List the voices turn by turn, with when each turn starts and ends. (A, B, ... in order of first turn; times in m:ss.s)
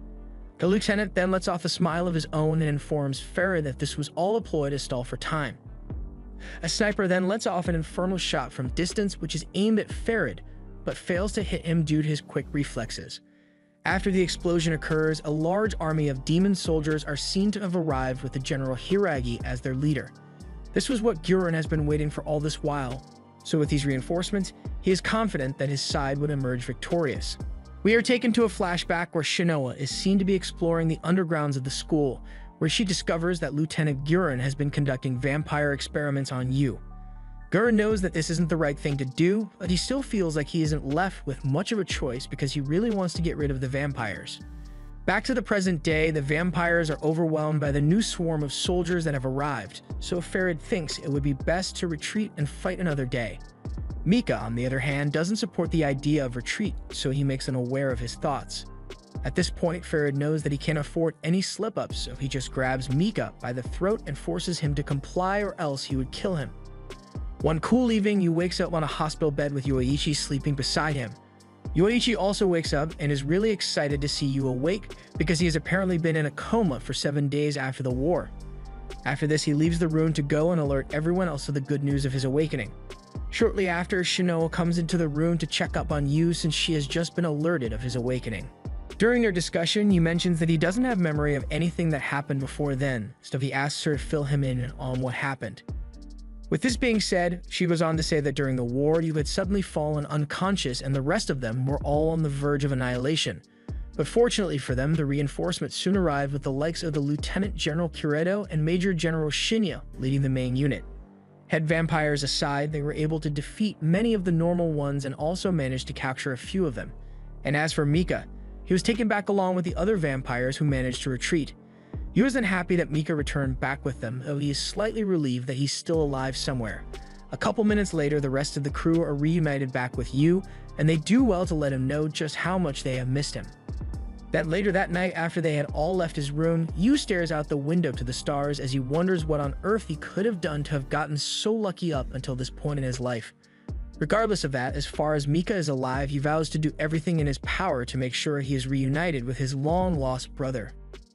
0:00.6-0:05.6 A
0:06.6-0:13.2 A
0:13.8-0:20.1 A
0:20.7-0:36.8 A
0:37.5-0:44.4 A
0:45.1-0:53.4 A
0:54.0-0:58.7 A
0:59.2-1:06.6 A
1:07.4-1:11.2 A
1:11.7-1:18.3 A
1:19.0-1:22.7 A
1:23.3-1:35.6 A
1:36.5-1:43.4 A
1:44.0-1:50.9 A
1:51.5-2:01.6 A
2:02.1-2:13.5 A
2:14.3-2:23.3 A
2:24.0-2:30.7 A